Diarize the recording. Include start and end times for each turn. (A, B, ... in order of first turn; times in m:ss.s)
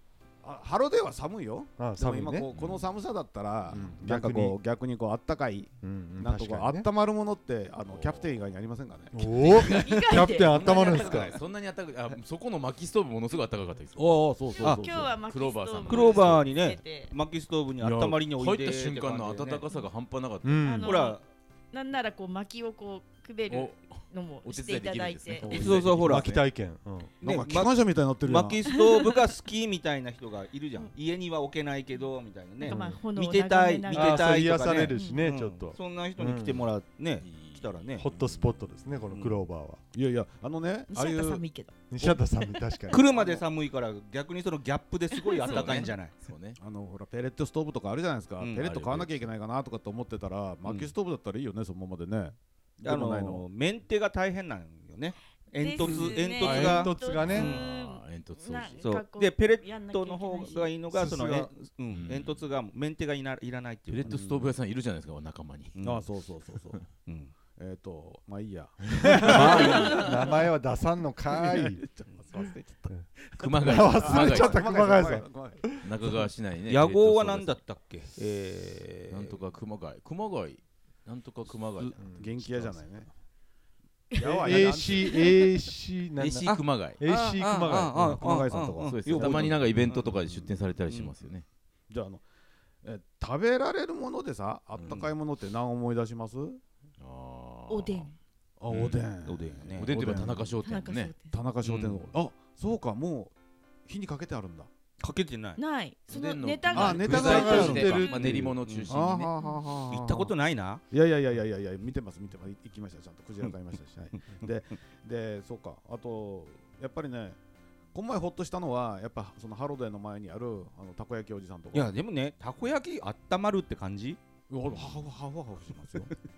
0:00.4-0:09.8 A
0:01.8-0:02.5 B
0:02.5-0:02.9 C
0:03.7-0:04.6 B
0:05.8-0:06.9 B
0:07.9-0:08.4 C
0:09.1-0:11.4 B
0:09.5-0:11.4 D
0:09.5-0:14.3 C
0:14.0-0:15.2 A
0:14.6-0:14.9 E
0:14.6-0:17.1 D
0:15.0-0:16.4 C
0:15.9-0:19.6 E
0:17.8-0:20.8 C
0:20.4-0:21.0 B
0:20.6-0:25.6 D
0:20.8-0:21.2 E
0:23.5-0:26.4 C
0:25.4-0:26.4 E
0:25.5-0:27.1 B
0:27.2-0:28.6 A
0:27.2-0:38.1 E
0:28.7-0:29.2 D
0:32.6-0:35.2 D
0:32.6-0:33.0 B
0:33.9-0:36.7 B
0:37.2-0:38.8 C
0:38.0-0:39.8 B
0:39.1-0:39.4 E
0:39.9-0:41.4 A
0:40.9-0:41.9 D
0:41.9-0:43.0 B
0:42.9-0:43.4 A
0:42.9-0:46.1 E
0:45.2-0:45.8 D
0:45.4-0:46.6 C
0:46.6-0:53.4 A
0:48.4-0:48.7 E
0:48.6-0:49.3 C
0:52.8-0:57.6 E
0:55.6-1:00.7 D
0:55.8-0:57.5 B
0:57.2-0:58.8 C
0:58.7-1:04.1 E
1:00.9-1:01.5 B
1:01.9-1:02.4 C
1:03.9-1:05.8 C
1:04.0-1:04.5 A
1:05.8-1:06.1 E
1:05.8-1:06.8 A
1:07.0-1:07.3 E
1:07.5-1:10.4 A
1:09.1-1:11.8 B
1:09.2-1:10.4 C
1:11.3-1:15.6 A
1:13.4-1:14.7 C
1:13.6-1:16.2 B
1:15.8-1:17.6 C
1:16.7-1:19.4 E
1:19.1-1:22.8 C
1:22.0-1:22.3 B
1:22.0-1:23.1 A
1:24.1-1:25.5 A
1:24.2-1:28.4 B
1:26.2-1:27.0 C
1:26.4-1:30.2 E
1:27.9-1:30.5 A
1:28.8-1:31.4 C
1:30.9-1:31.1 E
1:31.9-1:32.2 A
1:32.8-1:36.6 A
1:34.8-1:35.1 C
1:37.0-1:38.1 C
1:37.7-1:38.1 D
1:38.6-1:40.6 A
1:38.7-1:39.0 C
1:39.2-1:40.2 E
1:39.7-1:42.0 C
1:40.6-1:41.4 D
1:41.3-1:43.3 A
1:43.8-1:44.7 A
1:45.0-1:45.6 E
1:45.6-1:48.3 D
1:46.1-1:49.3 C
1:46.7-1:50.3 A
1:47.0-1:48.4 B
1:47.3-1:49.0 E
1:49.9-1:50.8 E
1:50.9-1:57.4 A
1:57.9-2:01.9 A
2:01.7-2:04.2 E
2:04.5-2:06.1 A
2:04.7-2:05.0 C